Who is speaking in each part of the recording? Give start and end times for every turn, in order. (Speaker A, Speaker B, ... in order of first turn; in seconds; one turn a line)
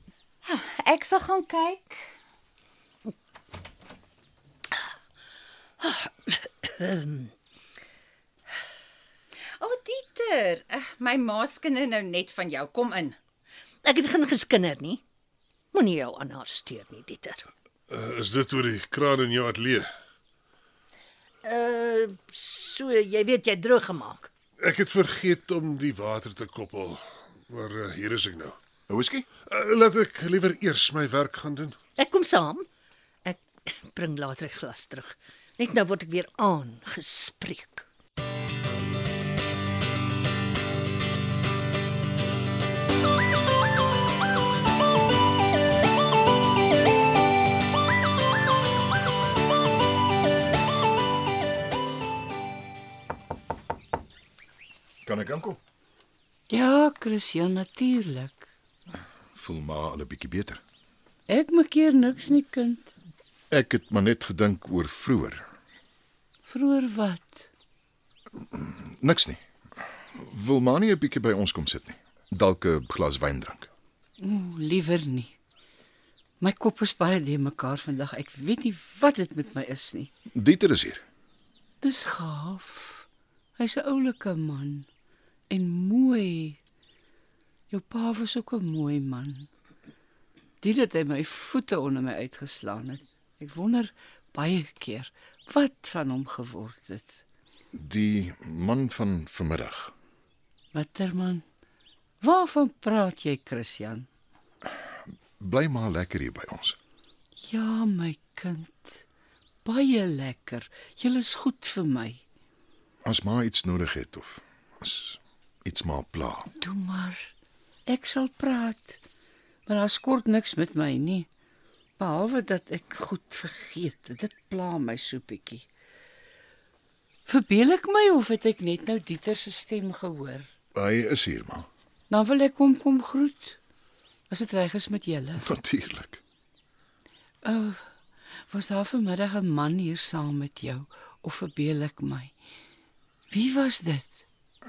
Speaker A: 0.4-2.0
Speaker B: 5.8-7.3
Speaker A: 9.6-13.2
Speaker B: 13.8-15.0
Speaker B: 15.7-17.5
Speaker C: 17.9-19.9
Speaker B: 21.4-24.3
Speaker C: 24.6-28.6
Speaker D: 28.9-29.3
Speaker C: 29.5-31.8
Speaker B: 32.0-32.6
Speaker B: 33.2-37.9
Speaker D: 55.0-55.6
Speaker E: 56.5-58.5
Speaker D: 59.3-60.6
Speaker E: 61.3-62.9
Speaker D: 63.5-65.4
Speaker E: 66.5-67.5
Speaker D: 68.5-69.4
Speaker D: 70.1-73.7
Speaker E: 74.2-75.3
Speaker E: 76.4-80.1
Speaker D: 80.3-81.0
Speaker E: 81.8-83.0
Speaker E: 83.6-84.9
Speaker E: 85.5-86.6
Speaker E: 87.7-89.5
Speaker E: 90.6-97.2
Speaker D: 97.7-99.9
Speaker E: 100.7-101.4
Speaker E: 102.2-104.1
Speaker D: 105.4-106.8
Speaker E: 107.4-109.0
Speaker E: 109.6-112.2
Speaker D: 113.0-116.5
Speaker E: 116.6-117.3
Speaker E: 117.9-119.0
Speaker E: 119.7-121.3
Speaker E: 122.0-125.7
Speaker E: 127.3-130.5
Speaker D: 130.7-131.7
Speaker E: 132.1-133.6
Speaker E: 134.3-135.5
Speaker D: 135.4-136.2
Speaker E: 137.4-137.8
Speaker E: 138.5-142.3
Speaker E: 143.3-144.2